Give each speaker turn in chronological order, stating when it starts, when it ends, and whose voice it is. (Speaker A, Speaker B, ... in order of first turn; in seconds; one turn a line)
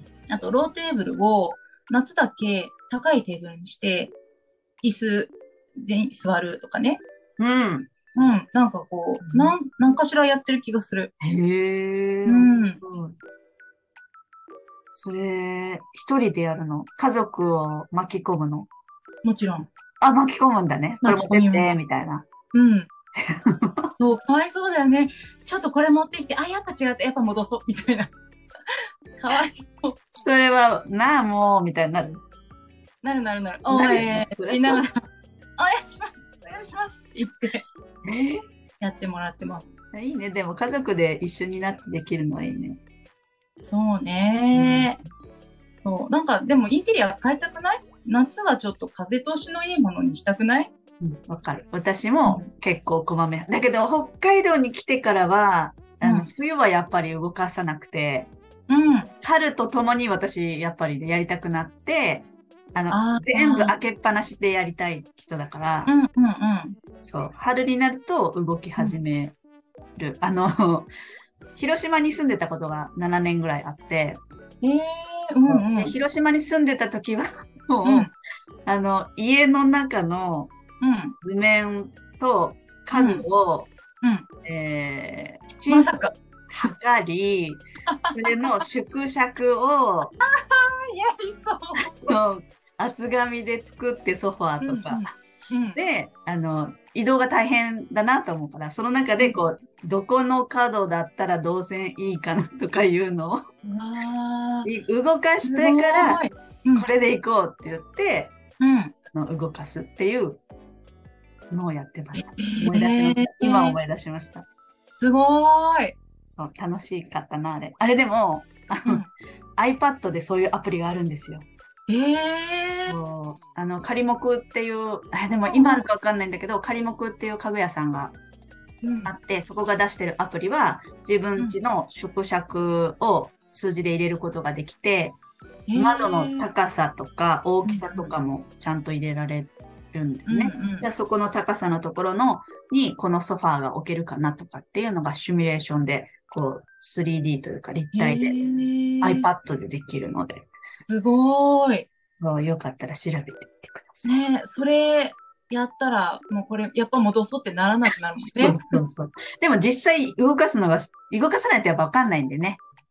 Speaker A: 0.3-4.1
Speaker A: 4.8-7.0
Speaker B: 7.4-7.9
Speaker A: 8.1-11.1
Speaker B: 9.2-9.5
Speaker B: 11.2-13.2
Speaker A: 12.2-12.8
Speaker B: 14.9-18.7
Speaker A: 19.2-19.7
Speaker B: 20.0-22.3
Speaker A: 21.0-21.7
Speaker A: 22.5-22.9
Speaker B: 23.2-23.9
Speaker A: 24.0-28.1
Speaker A: 28.7-30.0
Speaker B: 30.1-32.2
Speaker A: 33.0-35.0
Speaker B: 33.7-34.9
Speaker A: 35.6-37.6
Speaker B: 38.0-38.4
Speaker A: 38.8-39.7
Speaker B: 39.9-42.8
Speaker A: 43.6-45.0
Speaker B: 44.5-44.9
Speaker A: 45.8-50.7
Speaker B: 51.0-58.3
Speaker A: 56.0-56.3
Speaker A: 58.7-59.1
Speaker B: 59.2-65.9
Speaker A: 62.9-63.7
Speaker A: 65.9-66.8
Speaker B: 67.0-69.3
Speaker B: 70.0-70.9
Speaker B: 71.5-74.2
Speaker A: 74.6-75.9
Speaker B: 75.5-78.1
Speaker A: 77.8-78.1
Speaker B: 78.7-80.5
Speaker A: 80.8-81.2
Speaker B: 81.2-83.7
Speaker A: 82.9-83.2
Speaker A: 84.0-84.3
Speaker B: 84.4-86.0
Speaker A: 85.7-86.1
Speaker B: 86.5-90.1
Speaker A: 87.9-88.5
Speaker A: 90.2-92.1
Speaker B: 92.0-95.1
Speaker A: 94.6-95.8
Speaker B: 95.7-103.4
Speaker A: 103.6-104.7
Speaker B: 104.6-106.2
Speaker A: 105.4-106.9
Speaker B: 106.7-108.3
Speaker A: 108.6-108.9
Speaker B: 109.1-110.4
Speaker B: 111.5-114.5
Speaker A: 112.2-113.8
Speaker A: 115.0-116.0
Speaker B: 116.3-119.0
Speaker B: 119.6-121.5
Speaker A: 121.9-123.0
Speaker B: 122.9-128.2
Speaker A: 125.5-125.8
Speaker A: 128.8-129.1
Speaker B: 129.0-135.2
Speaker A: 135.7-136.5
Speaker B: 135.8-148.3
Speaker A: 137.6-138.1
Speaker A: 140.3-140.9
Speaker A: 147.9-149.2
Speaker B: 149.0-150.5
Speaker A: 150.9-151.9
Speaker B: 152.2-154.1
Speaker A: 154.0-158.8
Speaker B: 158.3-162.6